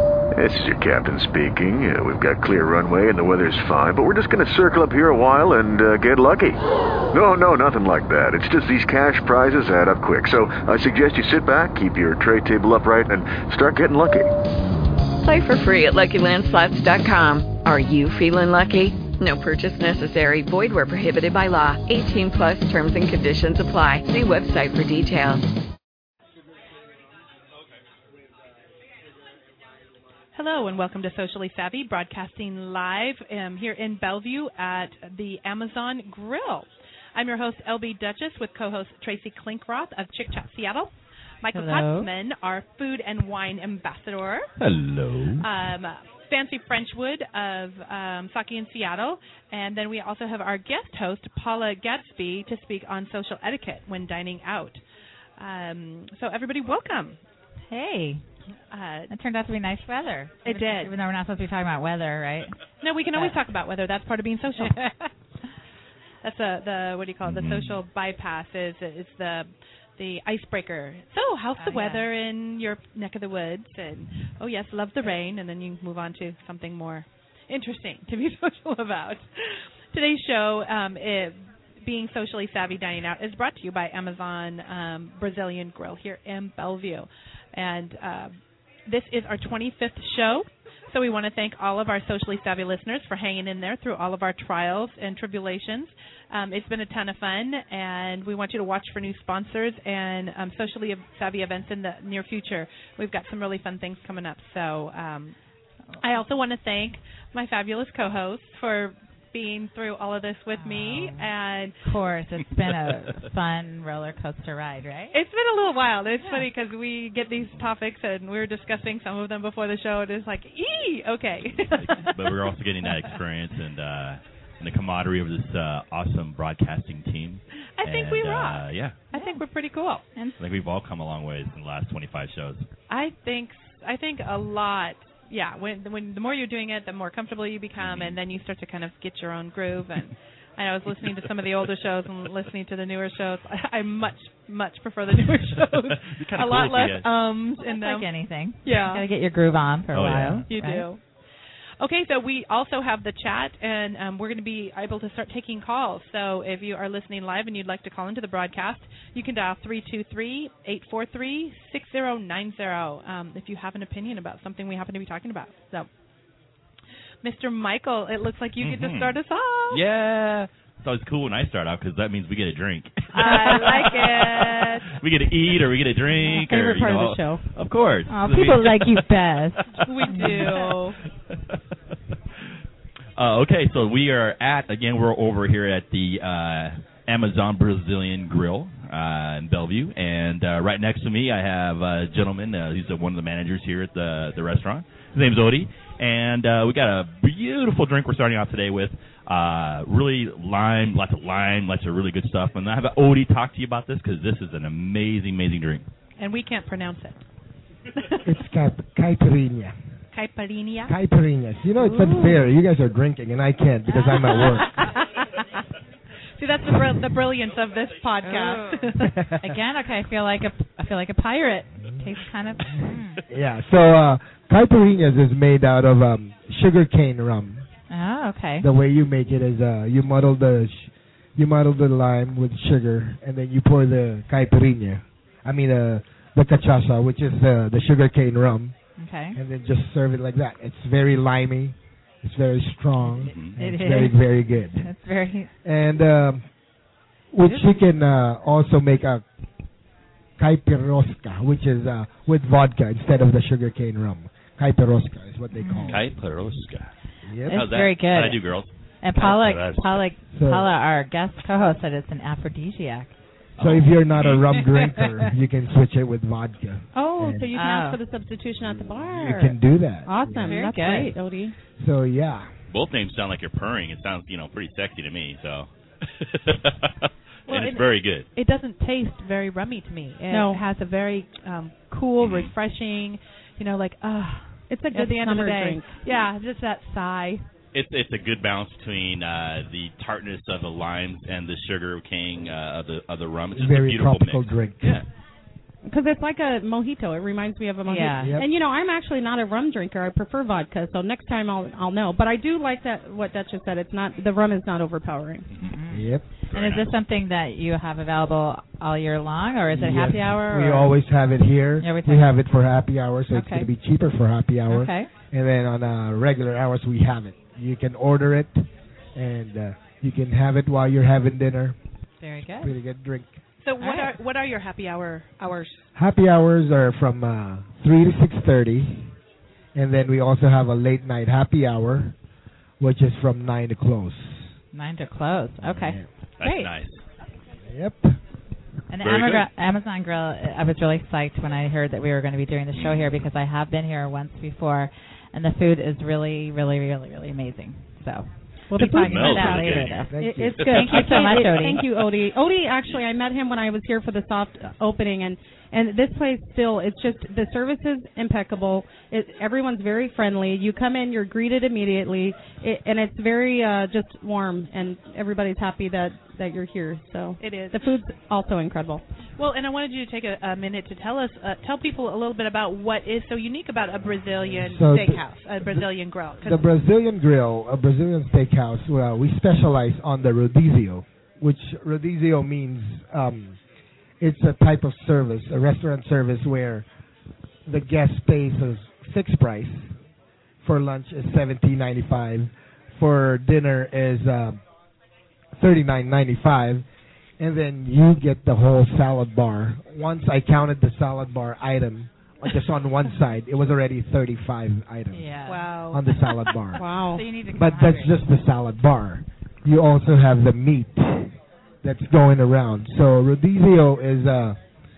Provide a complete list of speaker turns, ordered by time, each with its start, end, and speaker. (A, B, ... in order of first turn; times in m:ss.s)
0:00.3-0:06.6 A
0:07.1-0:14.3 A
0:15.2-0:25.4 B
0:30.4-0:40.9 C
0:41.4-0:44.5 C
0:41.5-0:42.1 D
0:44.6-0:45.5 E
0:45.4-0:54.8 C
0:55.4-0:57.2 C
0:57.7-0:58.2 D
0:58.7-0:59.1 C
0:59.1-1:02.5 D
1:00.4-1:00.9 C
1:02.8-1:04.9 C
1:03.2-1:03.4 D
1:06.2-1:28.3 C
1:07.2-1:07.8 E
1:11.6-1:12.1 D
1:28.9-1:45.4 C
1:46.0-1:51.8 C
1:50.6-1:51.3 D
1:51.8-1:55.2 D
1:55.1-2:02.1 C
2:01.6-2:09.0 E
2:07.8-2:10.0 C
2:09.1-2:09.4 D
2:10.4-2:12.7 E
2:12.9-2:29.0 C
2:17.8-2:18.2 E
2:25.9-2:27.1 E
2:27.6-2:30.9 D
2:29.9-2:30.5 E
2:30.5-2:31.0 C
2:31.8-2:45.9 C
2:47.2-2:49.8 C
2:48.6-2:49.2 E
2:49.7-2:59.1 E
2:53.1-2:54.9 C
2:56.3-2:57.4 F
2:58.1-3:00.6 D
2:59.8-3:00.5 E
2:59.9-3:01.0 C
3:03.2-3:25.8 E
3:26.2-3:27.2 C
3:28.0-3:28.3 C
3:28.2-3:29.8 G
3:30.1-3:31.0 C
3:30.9-3:34.7 G
3:31.8-3:32.4 D
3:33.9-3:34.8 D
3:34.5-3:35.6 C
3:36.4-3:39.1 C
3:38.2-3:43.2 D
3:41.8-3:42.1 G
3:42.7-3:47.6 G
3:47.9-3:48.7 D
3:48.6-3:58.8 G
3:59.0-3:59.4 D
3:59.3-4:04.9 G
4:03.0-4:05.5 D
4:03.3-4:03.5 E
4:05.6-4:06.4 G
4:07.3-4:09.2 G
4:07.4-4:07.8 D
4:10.4-4:16.1 G
4:15.5-4:16.0 D
4:15.9-4:16.9 E
4:17.2-4:17.6 G
4:17.5-4:20.1 E
4:17.5-4:23.2 D
4:20.3-4:20.7 G
4:23.6-4:24.5 E
4:23.6-4:27.5 G
4:24.8-4:25.1 D
4:27.0-4:31.6 F
4:27.5-4:28.0 D
4:28.8-4:30.7 G
4:30.4-4:31.1 D
4:31.8-4:32.5 G
4:32.7-4:36.9 E
4:37.5-4:38.3 E
4:37.5-4:47.5 C
4:40.3-4:40.6 F
4:42.2-4:42.5 E
4:44.7-4:46.0 F
4:47.7-4:55.1 E
4:53.6-4:55.0 G
4:55.9-5:05.5 F
4:57.8-4:58.4 D
4:58.2-4:58.5 G
5:05.5-5:05.8 E
5:05.6-5:11.0 D
5:05.9-5:06.2 G
5:06.5-5:06.9 E
5:09.7-5:21.8 G
5:11.8-5:12.3 D
5:13.3-5:13.7 D
5:14.7-5:15.1 D
5:22.2-5:22.7 D
5:22.6-5:23.4 G
5:23.6-5:25.9 C
5:23.8-5:24.1 D
5:26.0-5:29.2 G
5:29.8-5:32.2 G
5:32.8-5:34.5 G
5:34.7-5:36.8 D
5:35.6-5:36.1 G
5:36.4-5:37.0 E
5:37.7-5:38.2 G
5:38.9-5:51.8 D
5:39.0-5:39.5 E
5:42.8-5:43.0 E
5:48.7-5:51.8 E
5:48.9-6:09.0 F
5:50.1-5:51.1 G
6:07.4-6:07.9 C
6:09.4-6:16.7 C
6:14.5-6:23.6 G
6:24.2-6:26.9 G
6:27.7-6:30.0 G
6:30.6-6:34.6 G
6:35.5-6:36.9 G
6:37.4-6:46.8 G
6:45.1-6:45.7 D
6:45.5-6:46.0 C
6:46.8-6:47.2 F
6:47.1-6:48.3 D
6:47.5-6:54.6 G